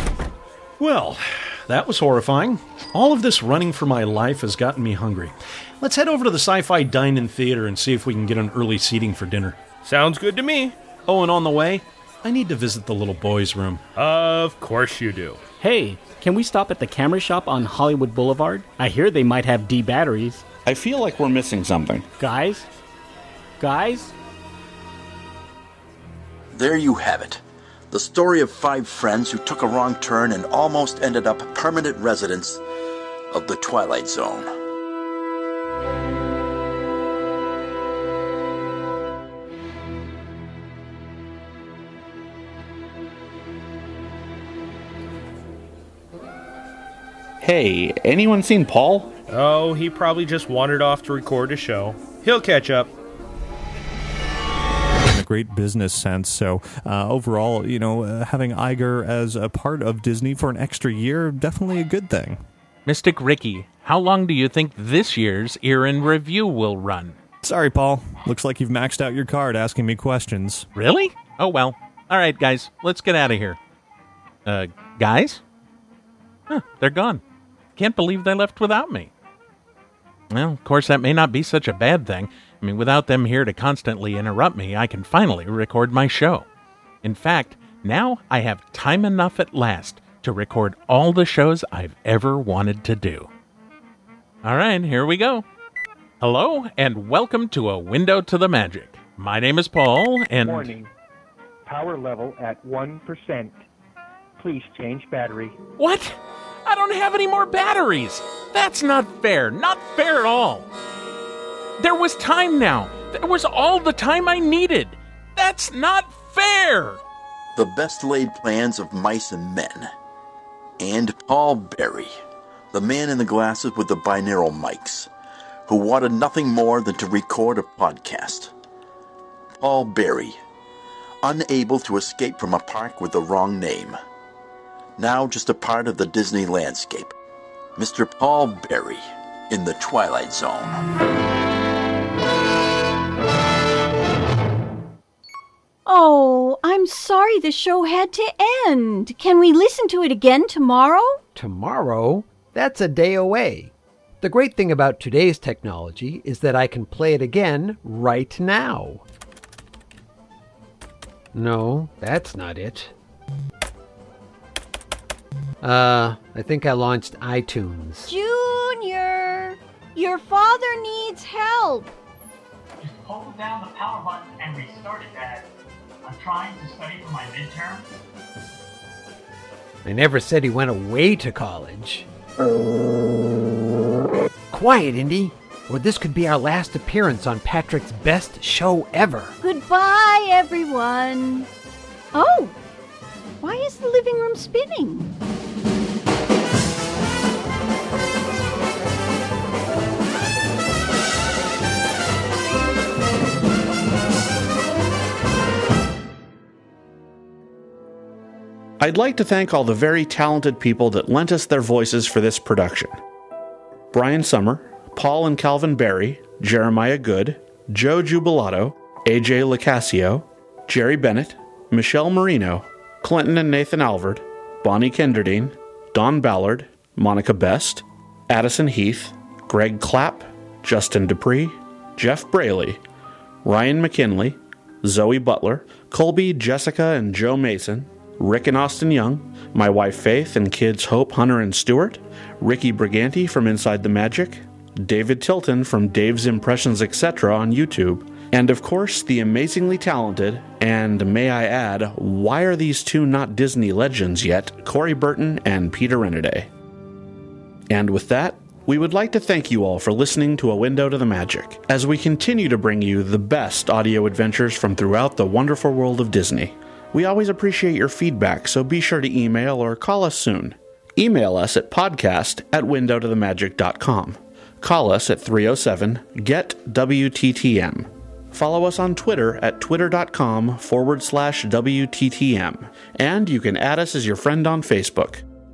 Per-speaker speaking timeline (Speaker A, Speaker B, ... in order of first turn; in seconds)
Speaker A: 0.8-9.6, 11.1-13.8
Speaker B: 9.8-10.8, 13.9-15.4, 49.3-52.9
Speaker C: 15.6-20.4, 22.2-22.7, 23.6-24.1
Speaker D: 20.6-22.1, 47.4-49.1, 208.8-213.0, 213.9-232.8, 233.4-256.5, 257.7-285.2
Speaker E: 26.5-32.6, 33.3-34.5, 117.5-119.9, 120.8-122.2, 122.7-125.1, 125.7-128.5, 129.6-130.4, 131.2-134.0, 135.0-137.1, 137.8-140.8
Speaker F: 55.0-62.4, 67.4-70.7
Speaker G: 62.9-67.2, 70.7-73.6, 74.5-75.4, 76.5-77.2, 77.8-79.1, 80.3-86.5, 87.0-93.3, 94.4-95.4, 96.2-100.7, 105.8-110.7, 111.8-117.0
Speaker H: 100.4-100.9, 101.7-103.5, 104.4-105.6
Speaker I: 145.8-151.2, 168.1-171.9, 189.4-191.5, 192.1-192.5, 193.4-195.1
Speaker J: 151.3-159.0, 161.3-162.9, 165.6-168.1, 179.8-182.1, 184.5-189.3
Speaker K: 172.8-175.5, 176.0-177.9